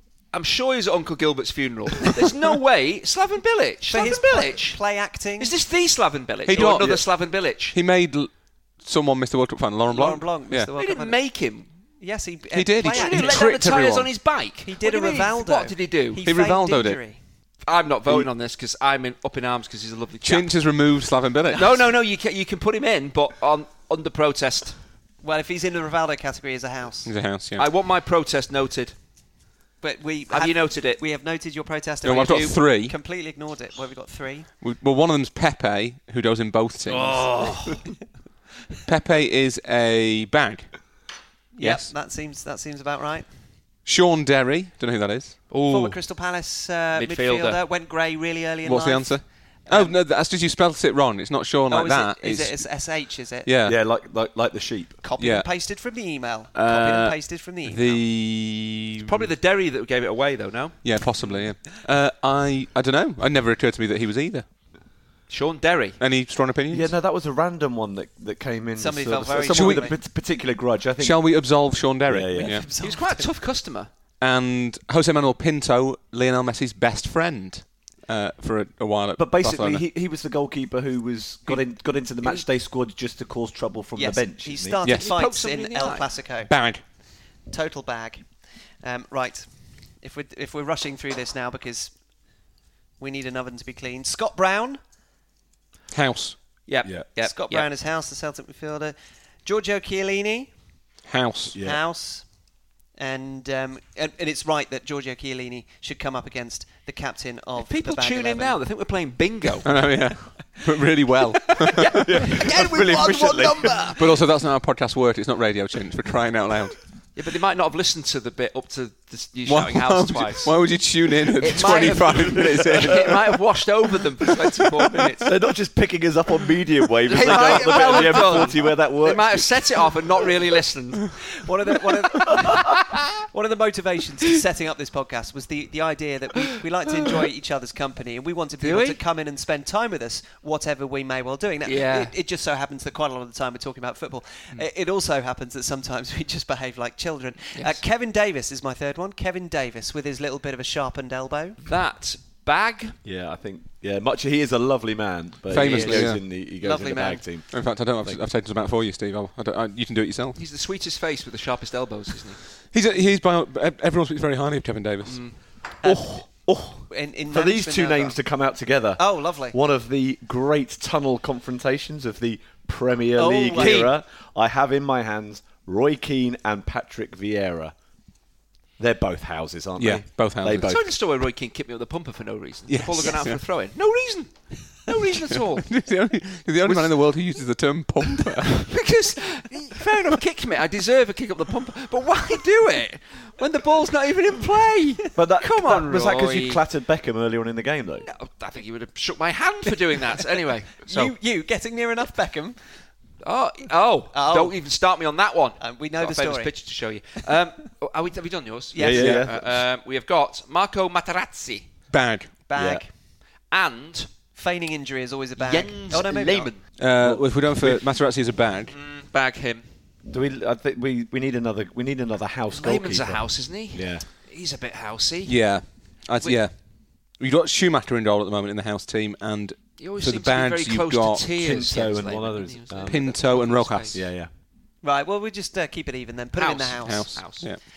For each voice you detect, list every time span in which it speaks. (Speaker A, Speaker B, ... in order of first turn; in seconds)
Speaker A: 0.3-4.8, 5.4-7.8, 10.8-11.7, 12.8-16.2, 17.6-20.6, 21.5-24.8, 27.6-28.9, 30.3-31.0, 36.9-37.9, 45.5-46.0, 46.9-47.6, 59.0-60.8, 65.3-66.0, 72.8-73.9, 84.8-86.1, 96.7-97.7, 107.6-109.7, 111.7-114.2, 117.2-120.6, 121.3-125.3, 127.0-131.2, 132.5-132.9, 138.6-139.0, 141.6-142.1, 147.5-147.8, 151.7-153.0, 155.5-156.1, 160.3-162.4, 165.1-165.3, 173.5-173.9, 180.5-185.7, 188.7-196.6, 198.1-201.1, 203.2-211.7, 213.5-214.1, 215.4-216.7, 218.7-219.7, 222.5-225.4, 229.8-234.0, 236.3-237.5
Speaker B: 3.9-5.5, 9.9-11.3, 12.0-13.5, 14.6-17.2, 25.2-27.1, 29.8-34.5, 41.5-43.3, 45.7-50.0, 51.7-53.5, 55.0-58.0, 68.8-70.0, 72.3-73.3, 84.0-86.5, 87.5-92.0, 93.0-94.8, 97.2-100.5, 101.6-102.3, 102.9-108.6, 131.3-151.6, 156.6-157.3, 165.8-166.2, 166.9-168.2, 169.0-169.6, 173.2-173.9, 200.8-202.7, 204.1-204.6, 205.6-206.5, 208.7-209.1, 212.5-212.9, 214.3-216.5, 234.8-237.5
Speaker C: 6.5-7.1, 7.7-10.7, 12.5-14.1, 16.2-17.0, 20.2-21.8, 27.0-27.7, 32.0-33.0, 34.6-37.4, 38.8-40.8, 41.6-41.9, 43.8-45.4, 48.6-52.8, 53.4-53.8, 55.2-55.5, 56.5-59.3, 60.8-64.5, 66.0-66.9, 69.4-69.9, 71.0-72.7, 74.2-79.8, 84.8-85.1, 86.5-86.8, 95.9-96.4, 101.0-101.6, 109.6-112.3, 114.0-116.8, 119.5-123.4, 155.5-156.2, 157.5-160.4, 162.7-165.3, 179.8-180.8, 182.7-183.4, 185.3-188.8, 209.0-209.3, 211.9-212.4, 216.8-218.7, 225.2-231.3, 232.9-234.0, 236.8-237.6
Speaker D: 53.6-55.0, 66.7-71.3, 72.0-72.6, 79.2-84.8, 101.5-101.8, 111.9-113.9, 125.2-130.0, 153.0-158.2, 165.8-177.7, 178.8-180.9, 195.1-198.1, 208.8-209.6, 212.5-212.8, 217.0-217.8, 220.1-224.1, 231.3-233.1, 233.9-234.3